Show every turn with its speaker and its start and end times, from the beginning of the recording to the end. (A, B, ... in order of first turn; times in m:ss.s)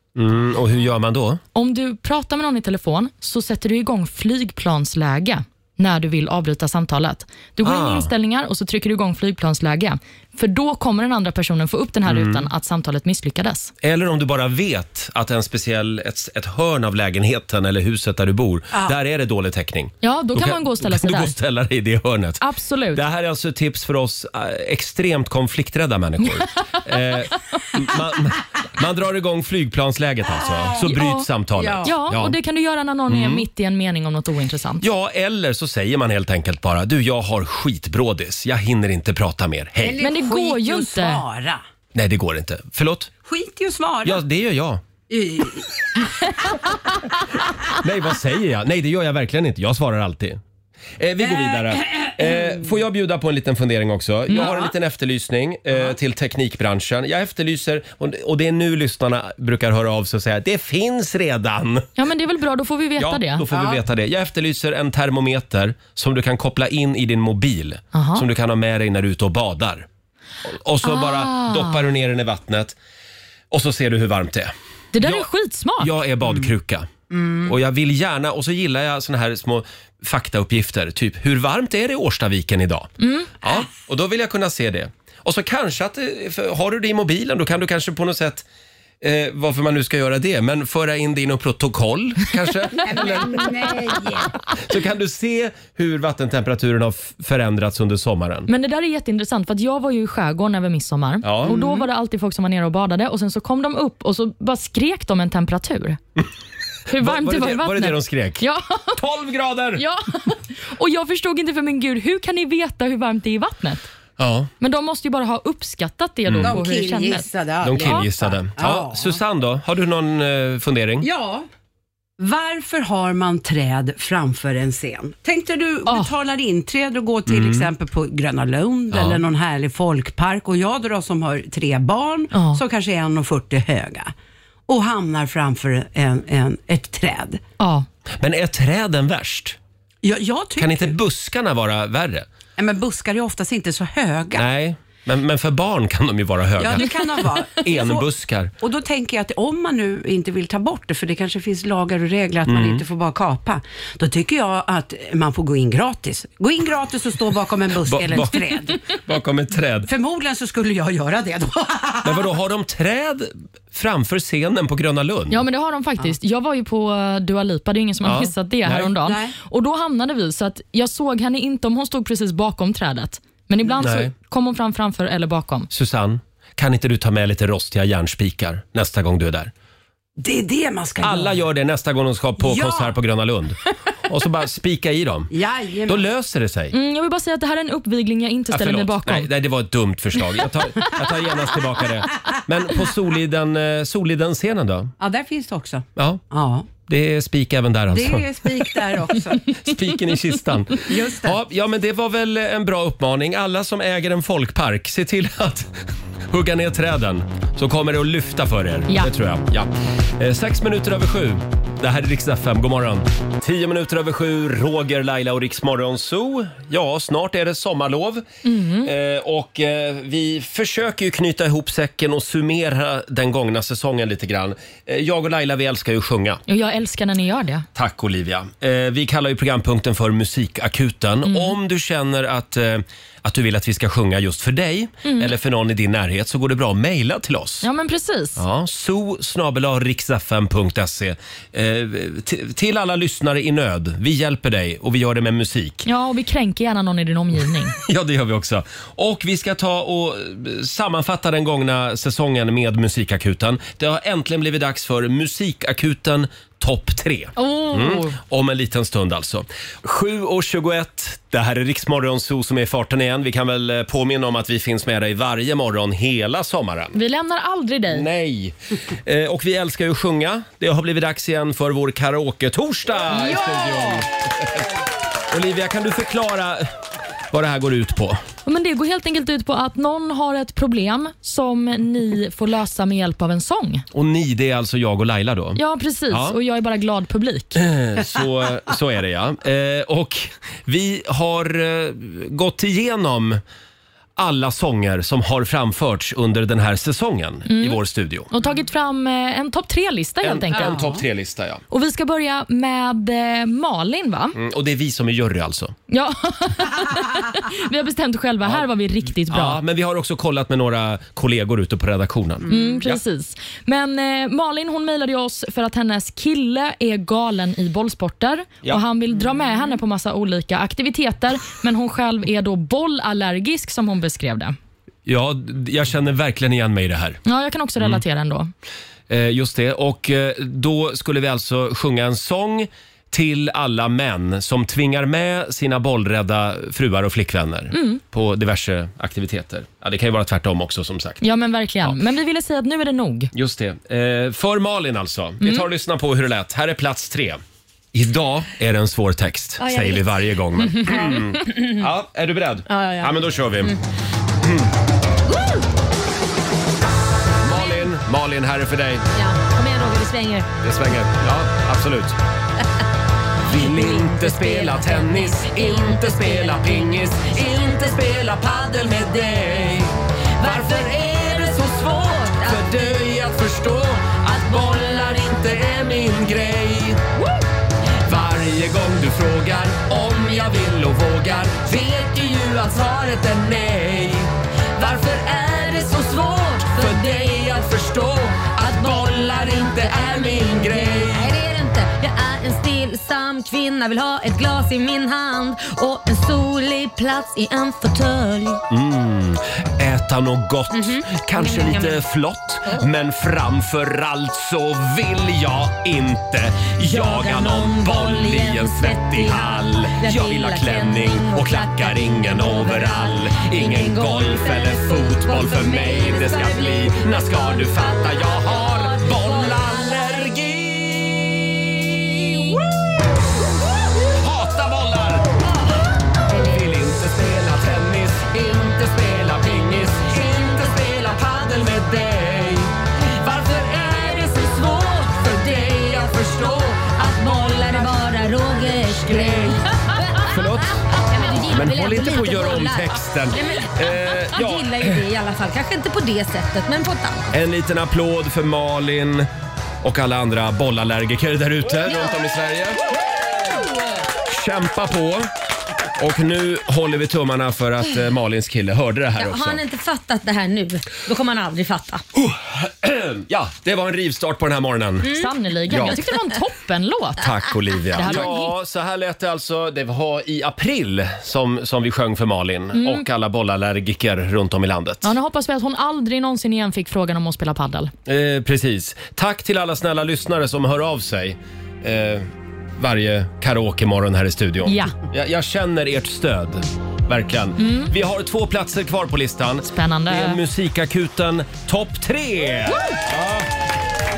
0:00.1-0:01.4 A
0:01.5-0:13.7 B
0:07.6-0:08.1 A
0:12.0-0:12.5 A
0:13.8-0:32.4 A
0:20.0-0:21.3 B
0:22.4-0:23.0 B
0:30.4-0:30.8 C
0:30.8-0:31.3 B
0:31.6-0:31.9 C
0:31.8-0:34.8 B
0:33.1-0:33.4 A
0:34.8-0:40.0 A
0:39.8-0:41.6 C
0:40.0-0:41.2 B
0:41.9-0:43.1 A
0:43.2-0:44.2 C
0:44.0-0:44.8 A
0:45.1-0:45.7 C
0:47.8-0:50.4 A
0:51.0-1:01.9 A
0:51.3-0:52.5 C
0:54.3-0:54.7 C
1:02.0-1:03.4 B
1:03.0-1:09.9 A
1:03.5-1:03.8 C
1:07.9-1:08.2 B
1:10.4-1:12.8 A
1:10.8-1:11.8 B
1:13.5-1:15.3 A
1:14.9-1:15.9 B
1:15.8-1:16.9 A
1:17.1-1:17.5 C
1:17.4-1:22.9 A
1:23.0-1:23.3 B
1:23.4-1:28.4 A
1:29.0-1:33.9 A
1:32.7-1:34.3 C
1:34.5-1:38.5 A
1:38.5-1:46.0 B
1:41.2-1:41.6 A
1:41.5-1:41.8 C
1:46.9-1:49.0 B
1:46.9-1:49.8 A
1:49.7-1:53.8 B
1:54.2-1:54.5 A
1:54.6-1:58.1 B
1:56.3-1:56.6 A
1:56.4-1:59.2 C
1:57.6-2:01.1 A
2:01.0-2:01.5 C
2:02.2-2:14.1 C
2:07.3-2:07.6 A
2:08.9-2:09.2 A
2:12.3-2:12.6 B
2:14.7-2:17.4 C
2:17.6-2:17.9 B
2:18.2-2:19.6 A
2:20.0-2:20.9 C
2:20.6-2:22.3 A
2:22.6-2:24.4 C
2:24.3-2:28.5 A
2:26.6-2:28.0 C
2:28.6-2:38.8 C
2:32.5-2:32.8 A
2:37.8-2:39.9 A
2:39.8-2:42.3 C
2:42.0-2:45.4 A
2:45.3-2:55.7 B
2:48.0-2:48.9 A
2:49.0-2:49.4 C
2:53.8-2:54.1 A
2:55.7-2:59.5 A
3:00.2-3:01.4 C
3:01.0-3:05.3 A
3:02.4-3:03.0 C
3:05.3-3:06.1 C
3:05.8-3:06.7 A
3:06.7-3:09.3 B
3:08.5-3:14.9 A
3:15.0-3:16.7 C
3:16.0-3:16.2 A
3:16.8-3:18.4 A
3:17.9-3:19.5 C
3:19.5-3:25.7 A
3:20.8-3:21.4 C
3:26.3-3:38.2 A
3:38.4-3:38.9 B
3:38.8-3:46.4 A
3:46.5-3:47.6 B
3:47.7-3:57.7 A
3:51.2-3:51.6 B
3:55.0-3:55.3 B
3:57.6-3:58.4 B
3:58.4-4:05.8 A
4:05.8-4:07.8 B
4:07.8-4:27.0 A
4:17.4-4:18.2 B
4:26.9-4:28.1 B
4:27.9-4:34.6 A
4:33.1-4:34.1 B
4:35.3-4:36.8 A
4:37.3-4:38.2 A
4:38.4-4:43.8 B
4:43.9-4:46.4 A
4:45.6-4:47.6 B
4:47.5-4:53.4 A
4:54.2-4:58.3 A
4:57.5-4:57.8 B
4:58.3-5:01.0 B
5:00.2-5:01.6 A
5:01.7-5:04.4 B
5:04.3-5:05.7 A
5:05.9-5:09.6 B
5:09.3-5:13.0 A
5:12.5-5:24.6 B
5:25.0-5:27.2 A
5:27.2-5:28.5 B
5:29.1-5:41.2 A
5:37.7-5:38.0 B
5:41.2-5:43.3 B
5:43.3-5:47.4 A
5:45.4-5:45.7 B
5:47.9-5:53.7 A
5:49.6-5:51.8 D
5:52.7-5:53.8 D
5:54.4-5:54.7 A
5:57.4-5:59.1 A
5:59.1-6:00.5 D
6:00.6-6:02.2 A
6:03.4-6:17.1 A
6:03.5-6:07.9 D
6:10.4-6:13.0 D
6:18.0-6:31.3 A
6:25.2-6:27.4 D
6:28.7-6:38.6 D
6:38.7-7:02.9 A
6:40.7-6:42.0 D
6:46.8-7:00.0 D
7:04.0-7:05.4 A
7:06.3-7:06.7 D
7:06.3-7:16.8 A
7:13.5-7:27.3 D
7:18.9-7:19.6 A
7:20.2-7:20.8 A
7:21.4-7:25.0 A
7:27.3-7:29.3 A
7:29.8-7:32.8 A
7:31.8-7:32.2 D
7:34.2-7:35.3 A
7:36.0-7:39.6 A
7:39.2-7:42.0 D
7:42.2-7:45.1 A
7:45.0-7:47.3 B
7:45.1-7:45.3 D
7:45.7-7:46.0 A
7:47.2-7:55.1 A
7:47.9-7:48.5 B
7:52.7-7:53.0 B
7:55.0-7:57.9 B
7:58.0-8:13.5 A
8:04.6-8:05.0 B
8:07.6-8:07.9 B
8:09.6-8:10.4 B